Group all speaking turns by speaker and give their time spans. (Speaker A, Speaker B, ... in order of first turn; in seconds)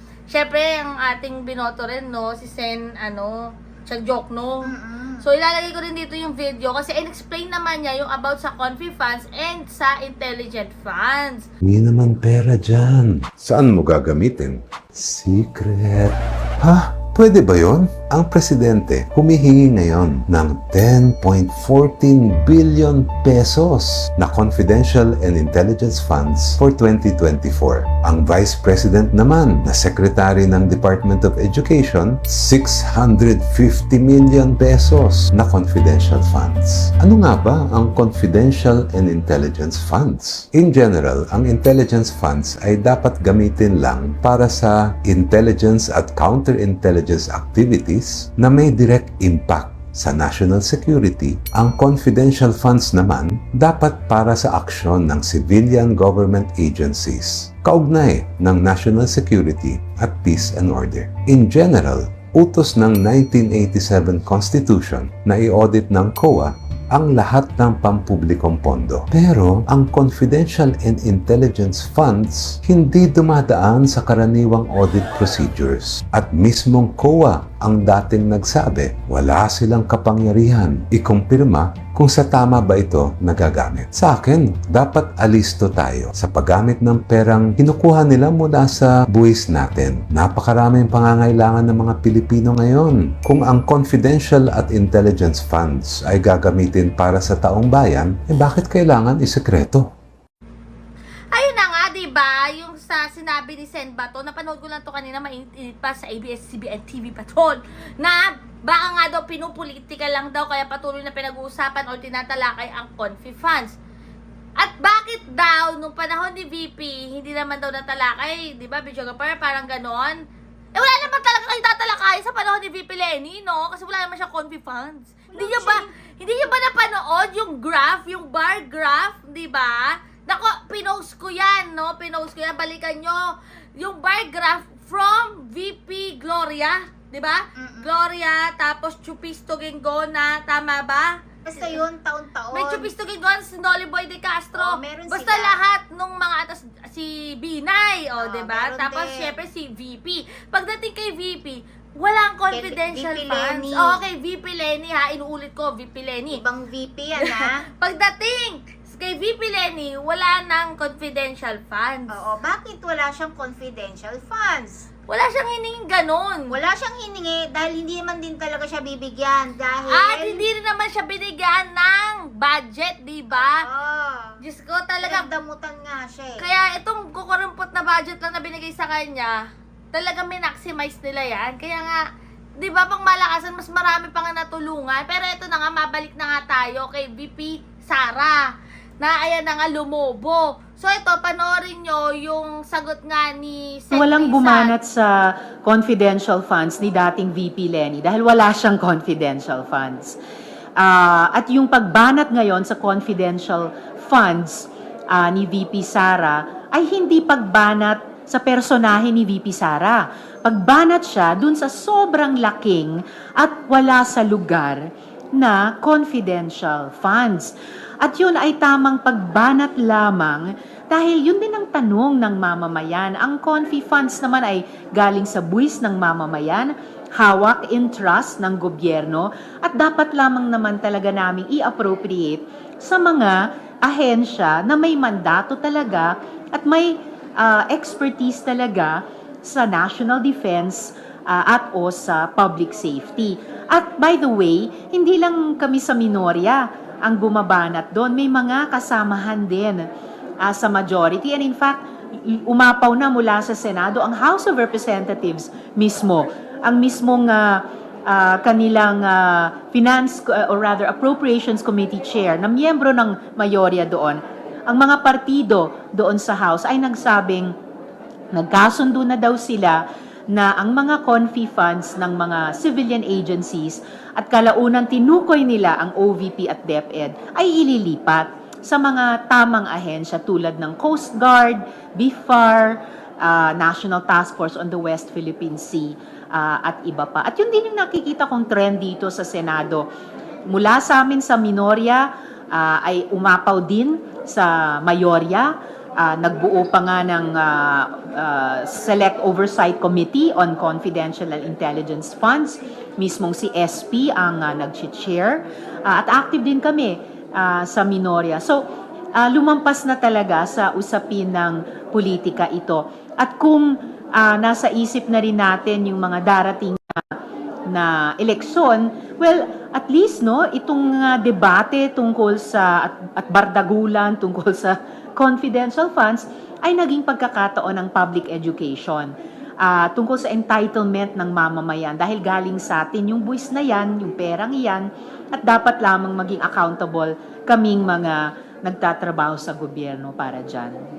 Speaker A: 0.3-11.5, 101.3-113.8, 114.6-120.2, 120.7-141.8, 142.5-156.4, 157.2-162.2, 165.1-166.5, 169.9-173.6, 174.4-175.3, 176.4-179.4, 179.9-182.0, 182.6-188.5, 189.0-194.7
Speaker B: 4.6-5.2, 137.6-137.9, 141.4-142.9, 144.6-145.6, 148.2-149.4, 152.5-154.0, 156.3-157.6, 162.1-164.8, 166.5-170.4, 173.3-174.4, 175.0-176.4
Speaker C: 11.6-99.8
Speaker D: 125.3-125.8, 193.9-200.2, 200.8-249.8, 250.4-267.5, 268.3-289.9, 290.5-308.6, 309.1-317.1, 317.7-340.8